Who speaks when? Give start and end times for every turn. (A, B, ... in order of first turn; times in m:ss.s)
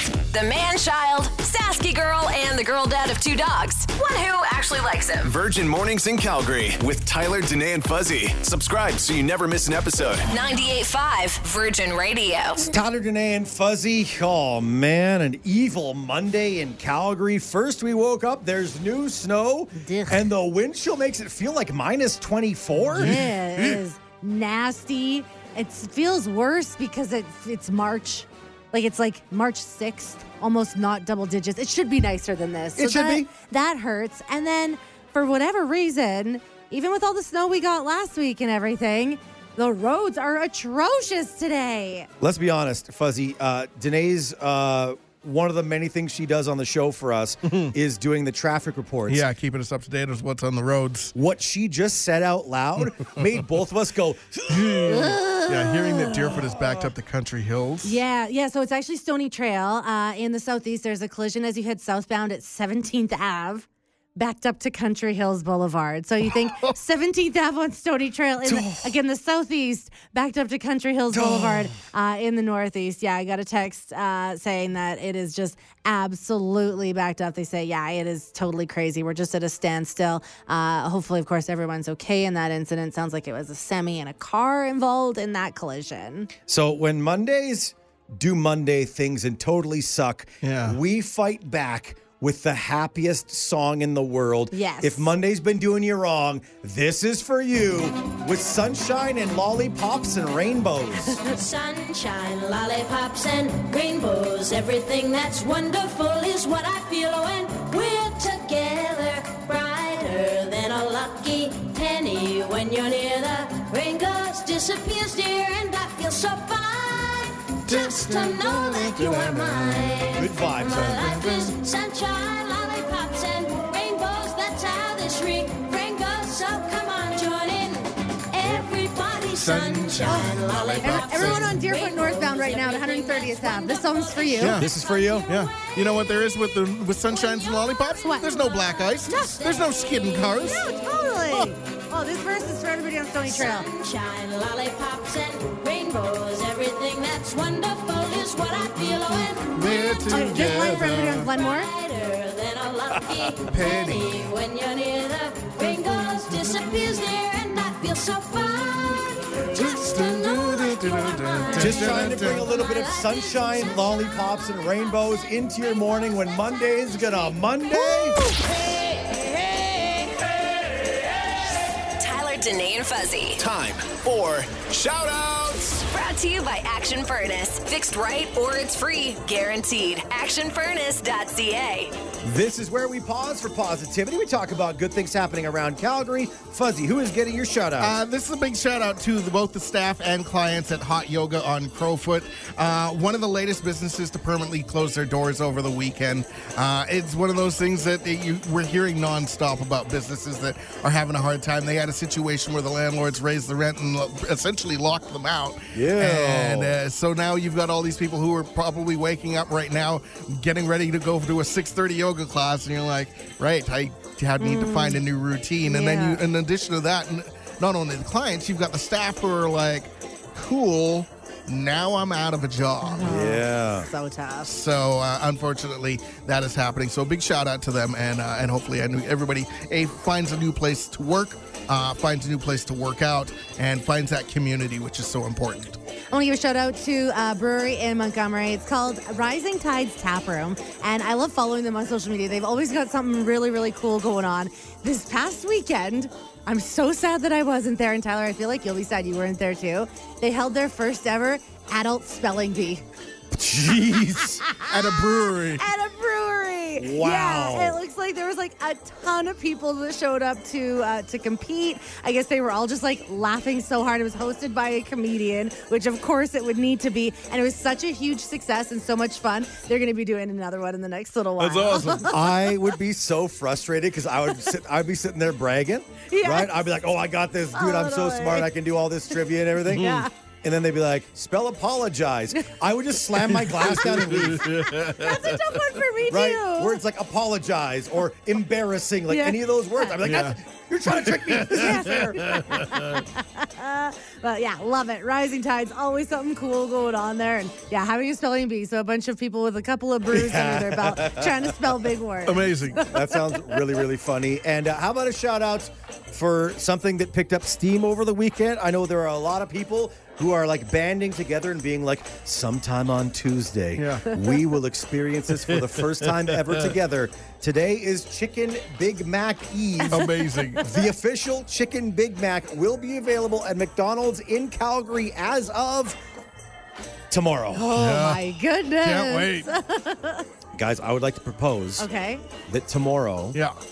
0:00.3-0:05.3 A
0:05.2-0:10.2 B
0:10.3-0:12.7 A
0:12.7-0:23.2 C
0:19.8-0:20.2 D
0:22.9-0:42.1 D
0:23.0-0:23.3 E
0:32.8-0:33.3 C
0:42.2-0:49.2 C
0:49.1-0:51.1 E
0:51.1-0:55.0 C
0:54.5-0:58.0 E
0:54.9-0:56.5 D
0:57.8-1:26.3 D
1:08.4-1:08.9 C
1:11.1-1:11.7 C
1:26.5-1:41.2 C
1:30.4-1:30.8 E
1:34.5-1:35.1 D
1:41.2-2:16.0 F
1:57.7-2:00.1 E
2:00.1-2:01.2 C
2:00.7-2:01.4 E
2:09.3-2:11.6 E
2:10.8-2:14.6 D
2:14.4-2:14.7 E
2:14.5-2:15.2 C
2:15.3-2:20.6 E
2:17.1-2:21.2 F
2:18.0-2:18.4 D
2:19.1-2:19.3 D
2:20.4-2:23.7 D
2:23.2-2:30.7 F
2:29.0-2:31.3 E
2:30.1-2:31.7 D
2:31.4-2:44.4 F
2:33.4-2:34.3 E
2:36.3-2:36.9 E
2:39.4-2:42.5 E
2:41.6-2:48.2 C
2:46.0-2:47.5 F
2:47.7-2:48.4 D
2:48.7-2:50.0 B
2:52.0-2:53.4 A
2:53.4-2:55.8 B
2:55.8-3:01.9 A
3:02.2-3:08.0 C
3:07.8-3:43.1 E
3:25.7-3:26.8 C
3:34.4-3:35.0 D
3:35.6-3:36.2 D
3:42.8-3:44.5 D
3:43.0-3:43.9 C
3:44.4-3:55.8 E
3:56.1-4:12.8 D
4:13.3-4:14.4 C
4:14.4-4:32.7 D
4:14.7-4:15.6 E
4:16.8-4:17.8 C
4:31.4-4:32.2 E
4:31.7-4:44.6 C
4:36.1-4:36.7 D
4:37.5-4:38.5 D
4:39.6-4:40.1 D
4:39.7-4:40.1 E
4:43.3-4:45.6 E
4:44.2-4:46.8 D
4:46.1-4:52.4 C
4:49.1-4:50.0 D
4:50.0-4:50.4 E
4:50.9-4:53.0 E
4:51.4-5:03.8 D
5:00.1-5:01.8 C
5:02.2-5:02.8 E
5:02.8-5:26.0 C
5:13.8-5:14.1 E
5:15.3-5:16.5 E
5:19.9-5:20.4 D
5:19.9-5:20.9 E
5:27.1-5:27.7 C
5:27.5-5:30.2 D
5:27.7-5:29.5 E
5:30.5-5:31.8 C
5:31.8-5:32.2 D
5:32.4-5:33.4 C
5:33.3-5:33.6 E